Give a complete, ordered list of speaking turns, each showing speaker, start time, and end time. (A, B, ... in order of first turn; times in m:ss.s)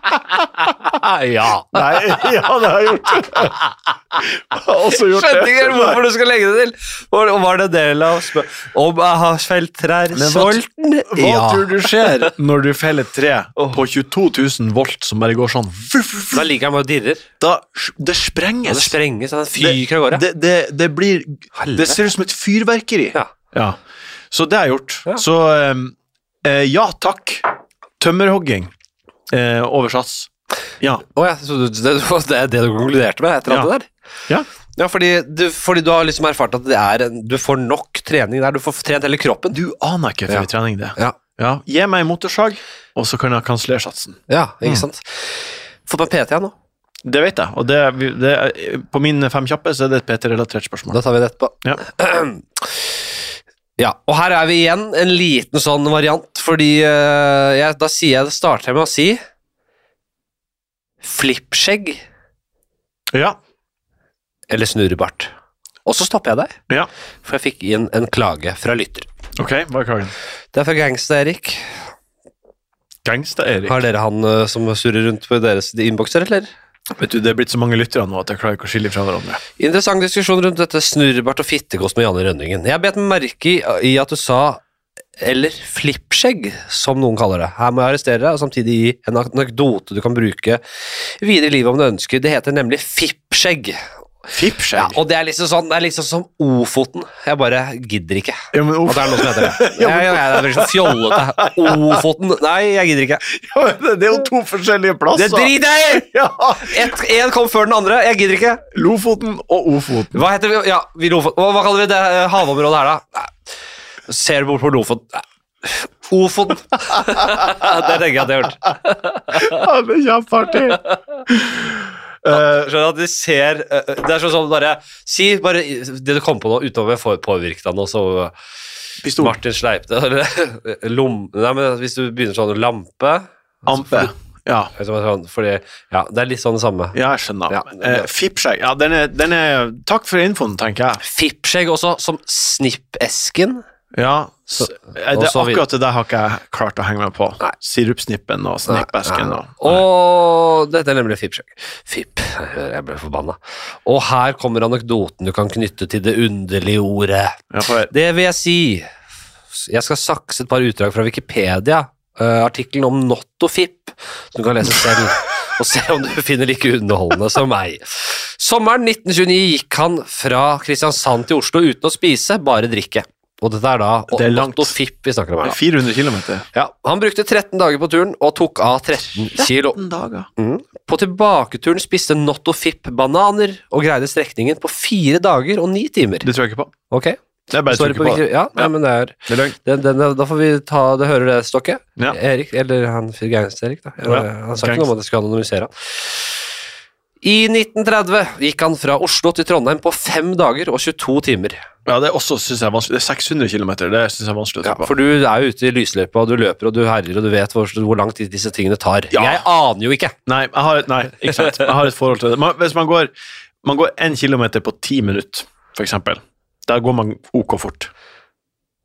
0:00.6-0:02.2 A
0:01.7-0:03.6 B
0:03.3-0:03.7 A
0:04.2-0:06.0 B
0:04.8-0:12.3 A
0:10.1-0:16.5 B
0:16.3-0:17.2 A
0:17.4-0:19.0 B
0:18.6-0:20.2 A
0:19.6-0:23.8 B
0:21.6-0:22.0 A
0:24.3-0:27.5 B
0:28.0-0:28.7 B
0:29.3-0:30.3 B
0:31.1-0:33.9 A
0:34.8-0:39.6 A
0:39.5-0:44.8 B
0:40.3-0:41.2 A
0:44.3-0:46.5 A
0:47.0-0:51.0 B
0:50.9-0:52.9 A
0:53.8-0:59.2 A
1:01.0-1:02.0 A
1:03.1-1:03.4 B
1:04.5-1:05.3 A
1:05.8-1:06.6 A
1:07.2-1:09.1 A
1:09.4-1:10.1 B
1:10.5-1:11.7 A
1:13.0-1:13.8 B
1:13.6-1:16.5 A
1:16.9-1:19.4 B
1:19.6-1:24.6 A
1:25.2-1:33.8 A
1:34.3-1:35.0 B
1:34.8-1:43.2 A
1:38.5-1:42.0 B
1:43.3-1:46.9 B
1:45.1-1:48.6 A
1:48.7-1:50.2 B
1:50.1-1:53.3 A
1:54.1-1:59.6 A
1:57.4-1:57.7 B
1:59.3-2:02.7 B
2:00.6-2:01.0 A
2:02.3-2:08.3 A
2:09.0-2:09.4 B
2:09.2-2:14.1 A
2:13.6-2:14.7 B
2:14.7-2:17.0 A
2:16.9-2:21.0 B
2:17.5-2:18.0 A
2:21.0-2:23.6 A
2:23.9-2:29.8 B
2:24.5-2:25.6 A
2:28.7-2:38.9 A
2:37.5-2:37.9 B
2:39.5-2:55.6 A
2:54.1-2:54.7 B
2:55.4-2:56.4 B
2:56.5-2:59.8 A
2:59.3-3:00.3 B
3:00.4-3:06.3 A
3:06.2-3:06.7 B
3:06.9-3:16.3 A
3:07.5-3:08.7 B
3:14.0-3:14.9 B
3:17.2-3:21.6 A
3:21.8-3:24.9 B
3:24.6-3:30.1 A
3:29.1-3:29.4 B
3:30.2-3:33.1 B
3:33.6-3:37.9 B